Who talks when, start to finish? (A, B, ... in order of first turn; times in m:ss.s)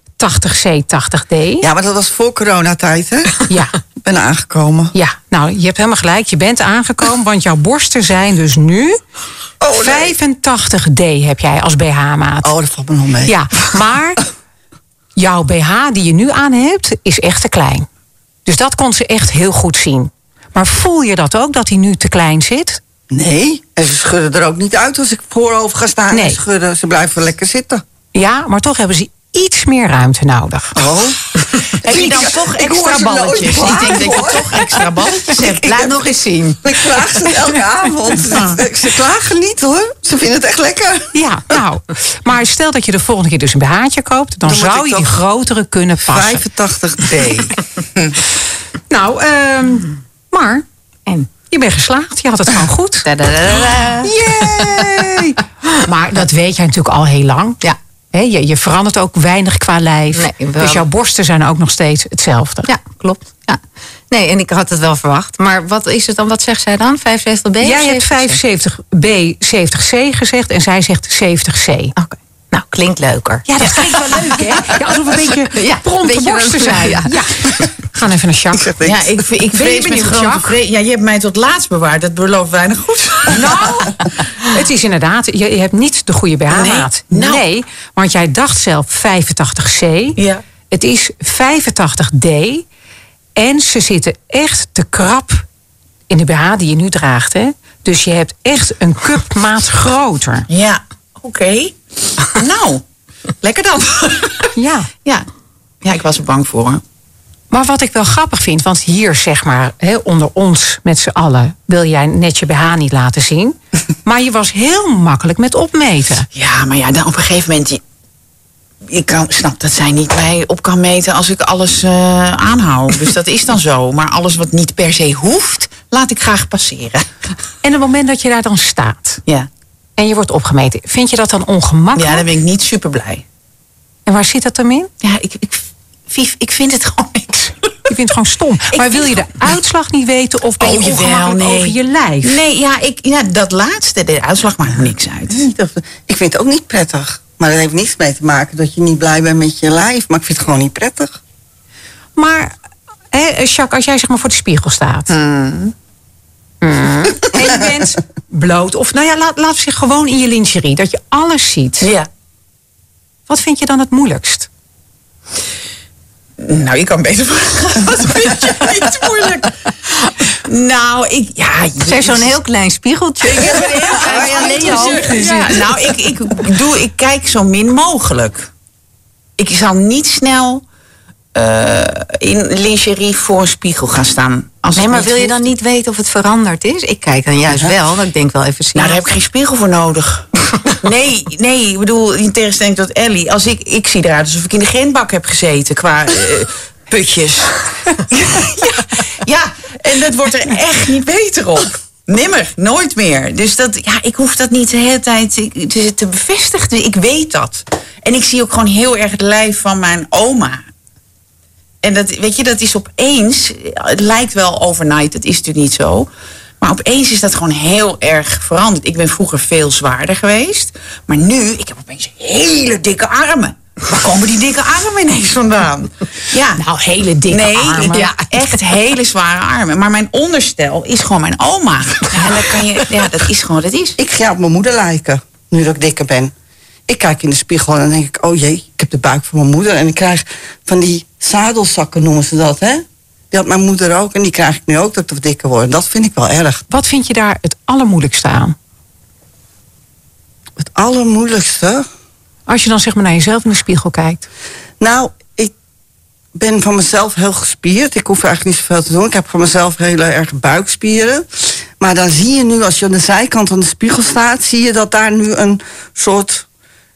0:00.2-0:01.7 A
0:01.6-0:03.4 B
0:03.5-0:03.7 A
0:04.0-0:04.9 B
0:04.9-0:09.0 A
0:09.6-0:10.2 B
0:09.7-0:12.5 A
0:12.4-0:13.4 B
0:13.3-0:14.2 A
0:15.2-0:17.9 A
0:18.5-0:22.8 A
0:23.1-0:27.8 B
0:26.1-0:26.4 A
0:28.1-0:30.8 A
0:30.8-0:34.8 B
0:31.8-0:36.2 C
0:32.0-0:32.3 A
0:33.3-0:34.3 A
0:35.4-0:36.6 D
0:36.6-0:41.2 B
0:41.1-0:46.4 A
0:44.5-0:45.2 B
0:46.0-0:47.6 B
0:48.9-0:50.6 A
0:51.5-0:53.1 A
0:53.0-0:54.9 D
0:54.0-0:57.6 A
0:58.1-1:02.7 A
1:00.1-1:00.8 D
1:02.7-1:08.4 D
1:07.6-1:12.0 A
1:12.0-1:14.7 D
1:13.5-1:18.7 A
1:15.3-1:17.5 D
1:18.6-1:19.2 B
1:18.8-1:24.1 C
1:19.5-1:20.6 A
1:23.3-1:30.2 A
1:26.5-1:27.4 C
1:30.2-1:30.4 C
1:30.7-1:32.6 A
1:33.4-1:35.4 A
1:36.1-1:40.5 A
1:40.5-1:42.8 C
1:43.4-1:44.5 C
1:44.6-1:44.9 A
1:45.8-1:46.8 C
1:47.5-1:56.3 A
1:56.3-1:57.8 C
1:58.9-2:07.1 C
2:07.6-2:09.2 A
2:10.0-2:12.3 A
2:12.0-2:13.2 C
2:14.1-2:14.9 A
2:15.0-2:17.7 C
2:17.9-2:22.4 A
2:18.7-2:19.3 C
2:20.6-2:25.5 C
2:25.3-2:31.2 B
2:32.2-2:32.5 A
2:33.1-2:35.1 A
2:35.1-2:35.7 C
2:36.6-2:41.9 A
2:41.8-2:42.1 C
2:43.3-2:44.5 A
2:46.4-2:52.4 C
2:51.8-2:55.4 D
2:53.2-2:58.5 C
2:53.4-2:55.2 B
2:59.4-3:00.6 C
3:01.3-3:05.4 C
3:04.8-3:09.0 D
3:08.8-3:10.3 C
3:10.8-3:30.6 C
3:31.8-3:36.1 C
3:36.6-3:46.6 C
3:46.6-3:48.2 A
3:47.3-3:54.0 C
3:47.9-3:48.2 D
3:54.0-3:56.3 B
3:56.9-4:06.6 B
4:06.7-4:08.6 A
4:10.6-4:11.8 B
4:12.5-4:14.3 A
4:14.8-4:15.5 B
4:16.3-4:26.5 B